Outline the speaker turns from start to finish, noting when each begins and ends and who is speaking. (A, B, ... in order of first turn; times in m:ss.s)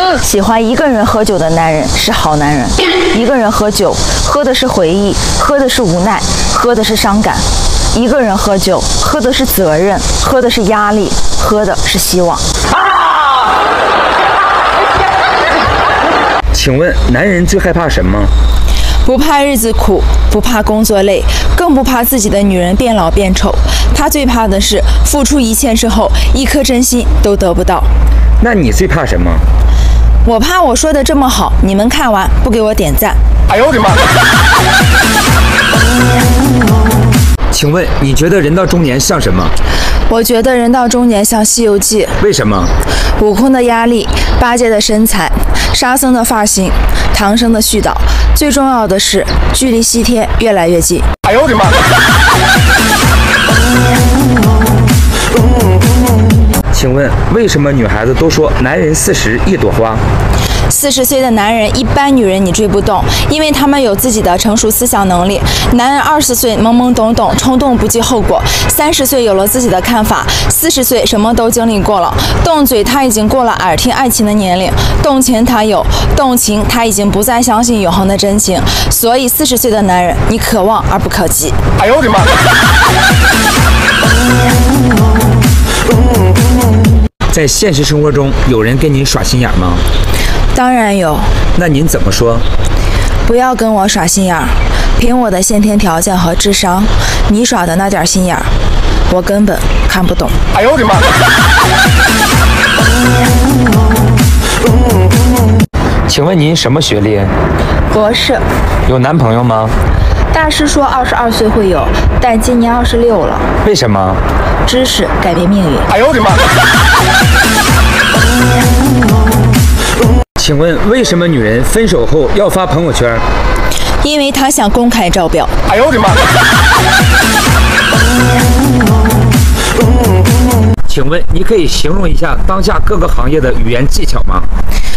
0:00.2-0:12.4 A
0:16.5-0:18.3 B
0:19.0-0:27.9 A
0:28.4-0:29.4 B
0:30.2-0:33.2 A
0:37.5-0:39.6 B
0:40.1-0:42.2 A
0:42.2-0:42.7 B
0:43.2-0:51.1 A
0:56.7-1:00.0 B
1:00.7-1:21.6 A
1:27.3-1:29.8 B
1:30.5-1:31.3 A
1:31.6-1:32.4 B
1:33.3-1:38.5 A
1:39.1-1:40.4 A
1:46.1-1:47.3 B
1:47.9-1:48.4 A
1:48.9-1:49.8 B
1:50.3-1:53.5 A
1:53.6-1:54.2 B
1:54.7-1:56.0 A
2:00.4-2:03.2 B
2:04.0-2:05.5 A
2:10.9-2:14.5 B